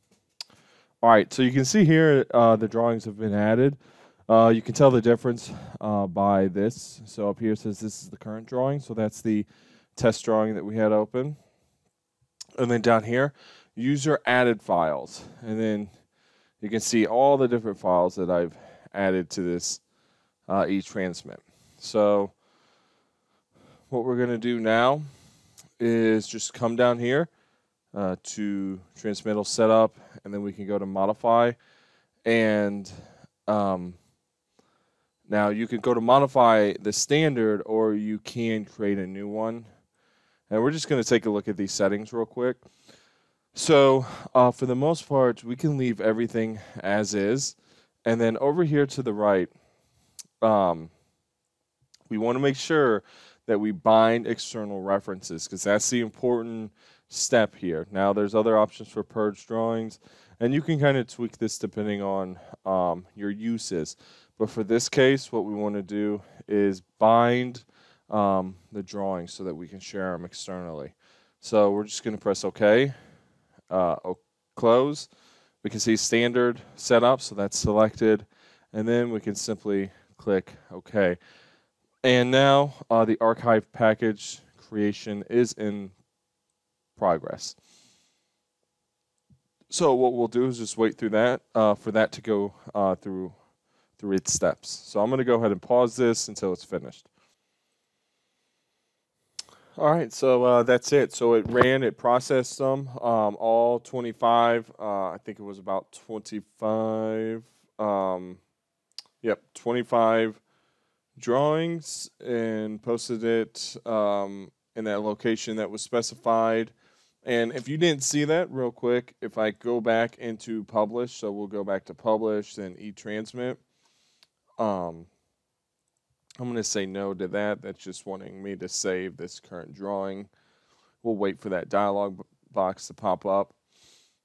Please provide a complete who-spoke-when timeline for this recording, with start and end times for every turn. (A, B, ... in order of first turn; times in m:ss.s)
0:01.0-0:11.4 A
0:12.6-0:15.9 A
0:16.6-0:19.8 A
0:20.5-0:22.3 A
0:23.9-0:25.0 A
0:25.8-0:27.3 A
0:27.9-0:31.6 A
0:32.2-0:32.9 A
0:33.5-0:34.0 A
0:35.3-0:39.7 A
0:40.5-0:42.6 A
0:43.5-0:47.5 A
0:48.0-0:49.5 A
0:50.4-0:50.9 A
0:52.1-1:12.9 A
1:13.7-1:15.1 A
1:15.6-1:21.2 A
1:22.0-1:25.9 A
1:27.0-1:27.6 A
1:29.7-1:33.3 A
1:34.0-1:37.1 A
1:39.8-1:48.4 A
1:49.2-1:50.4 A
1:51.2-1:56.7 A
1:57.2-2:03.6 A
2:04.6-2:05.1 A
2:06.4-2:10.3 A
2:11.0-2:13.5 A